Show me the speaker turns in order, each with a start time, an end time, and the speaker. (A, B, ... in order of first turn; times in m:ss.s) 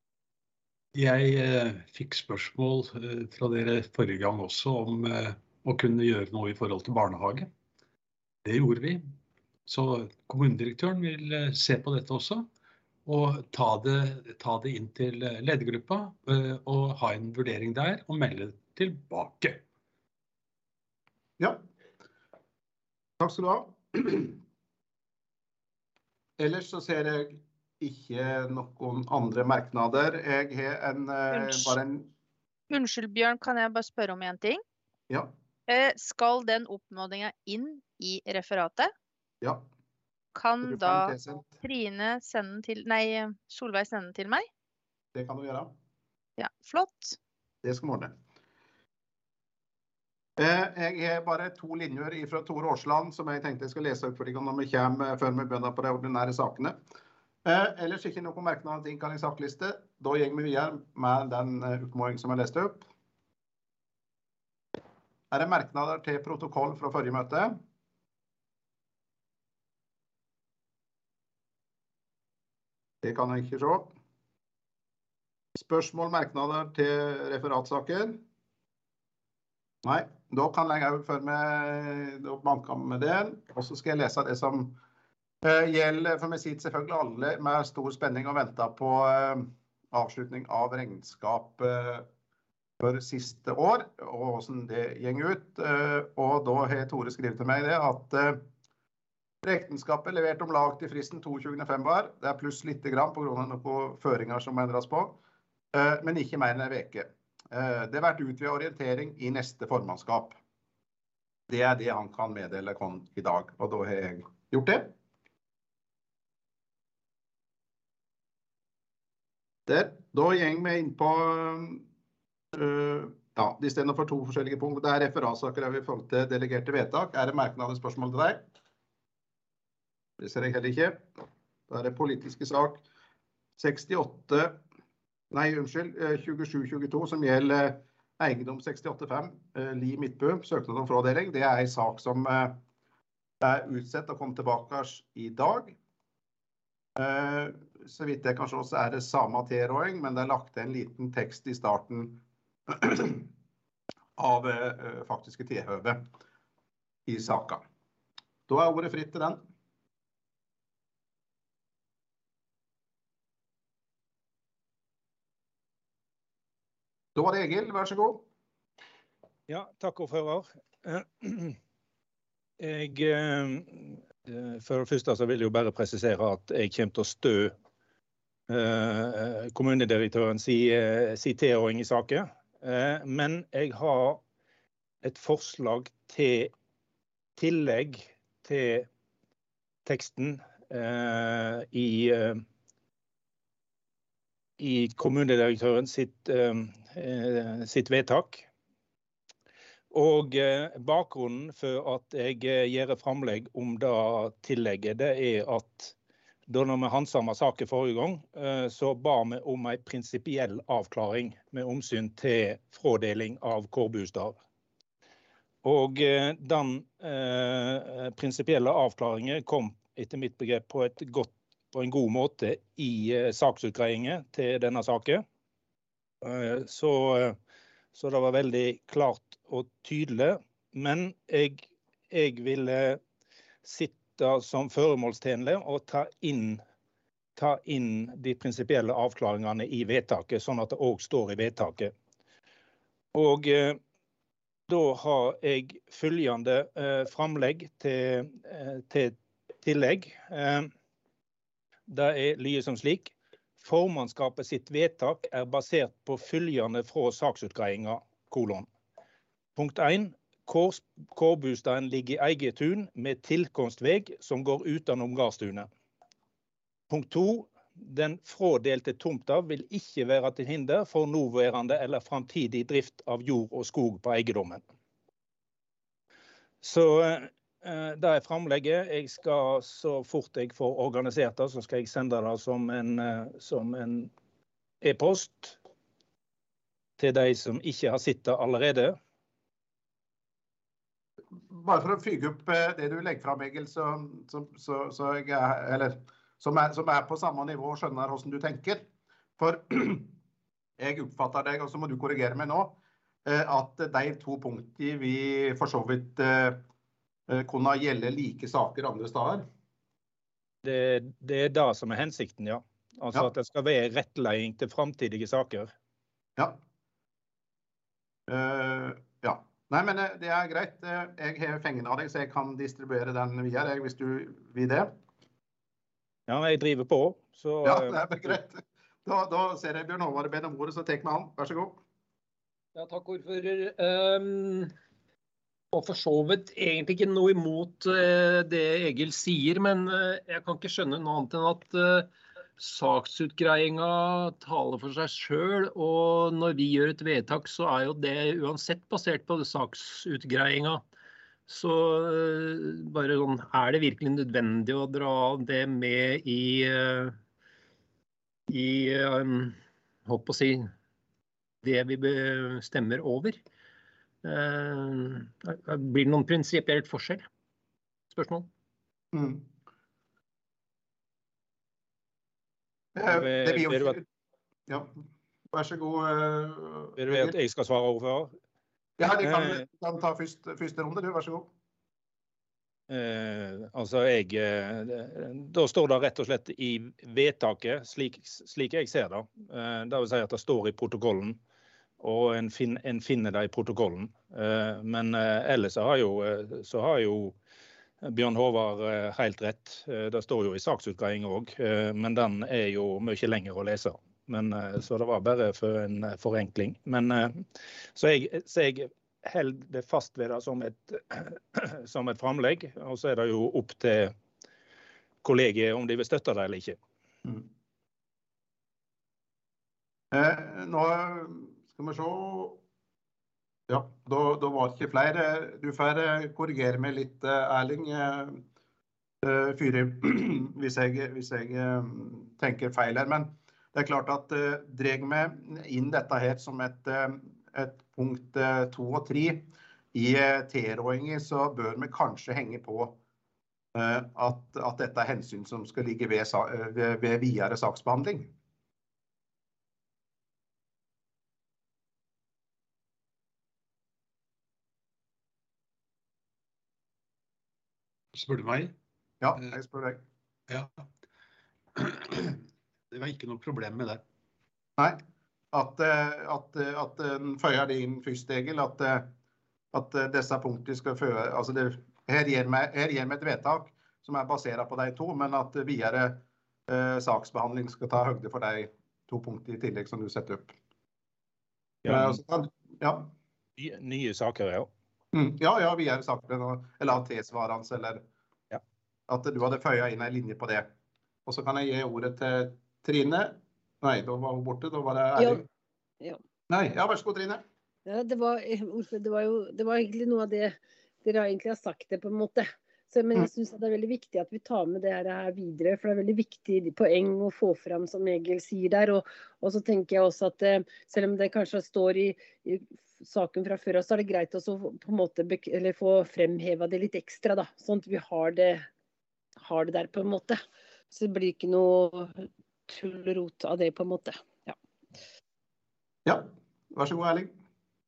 0:01.0-0:07.5 A
0:08.4-0:09.0 A
0:09.7-0:12.5 A
0:13.1-0:19.6 A
0:21.4-0:21.6 B
0:23.2-0:24.4 B
0:26.4-0:32.1 B
0:31.3-0:31.8 C
0:32.7-0:34.6 C
0:35.7-0:38.9 C
0:40.3-0:44.5 C
0:40.6-0:41.5 B
0:45.2-0:45.7 B
0:46.4-0:47.2 C
0:47.6-0:48.1 B
0:50.4-0:56.8 B
0:57.4-1:02.9 B
1:05.3-1:07.6 B
1:13.0-1:13.9 B
1:15.6-1:18.2 B
1:19.8-1:24.8 B
1:25.4-1:32.1 B
1:32.8-1:38.4 B
1:39.4-1:45.2 B
1:45.7-1:50.4 B
1:51.5-1:54.9 B
1:59.7-2:01.8 B
2:02.6-2:08.4 B
2:10.2-2:11.1 B
2:11.7-2:12.8 B
2:13.6-2:14.6 B
2:15.3-2:22.6 B
2:23.4-2:25.8 B
2:27.0-2:33.3 B
2:34.2-2:36.0 B
2:37.1-2:37.6 B
2:38.5-2:39.4 B
2:47.2-2:48.3 B
2:49.5-2:51.6 D
2:52.6-2:57.5 D
2:58.5-3:04.2 D
3:05.0-3:06.5 D
3:07.4-3:08.9 D
3:09.9-3:12.4 D
3:14.6-3:18.5 D
3:19.9-3:26.0 D
3:26.5-3:34.4 D
3:35.6-3:45.2 D
3:46.2-3:47.4 D
3:48.0-3:53.0 D
3:53.6-3:56.6 D
3:57.4-4:01.9 D
4:03.1-4:03.8 D
4:04.7-4:10.7 D
4:11.9-4:18.7 D
4:19.6-4:25.7 D
4:26.9-4:34.6 D
4:36.6-4:44.1 D
4:44.8-4:45.6 D
4:47.0-4:49.0 D
4:51.5-4:58.8 B
4:59.4-5:00.1 B
5:00.8-5:06.6 B
5:07.3-5:09.4 B
5:10.6-5:15.7 D
5:18.3-5:24.9 B
5:26.3-5:28.4 D
5:27.6-5:31.8 B
5:32.8-5:34.7 E
5:35.7-5:50.8 E
5:51.5-5:57.2 E
5:58.5-6:00.7 E
6:01.6-6:03.4 E
6:04.2-6:07.3 E
6:08.1-6:08.5 E
6:09.1-6:09.5 B
6:13.0-6:14.0 B
6:13.1-6:14.0 D
6:15.5-6:17.3 B
6:17.0-6:18.3 D
6:19.0-6:21.5 B
6:19.2-6:19.6 D
6:22.9-6:31.4 D
6:32.0-6:37.4 D
6:38.0-6:47.4 D
6:48.0-6:54.1 D
6:55.2-6:56.8 D
7:00.1-7:02.6 B
7:03.7-7:08.4 B
7:09.2-7:23.0 B
7:23.8-7:28.3 B
7:38.2-7:38.7 A
7:39.2-7:40.0 B
7:41.8-7:44.0 A
7:45.5-7:49.1 B
7:49.7-8:00.5 B
8:01.8-8:02.2 D
8:01.8-8:03.1 B
8:03.6-8:04.7 D
8:05.1-8:08.0 B
8:09.1-8:10.7 B
8:11.3-8:15.5 B
8:15.2-8:15.4 F
8:16.5-8:17.4 B
8:17.9-8:38.7 F
8:39.4-8:40.4 F
8:40.9-8:44.6 F
8:46.1-8:47.3 B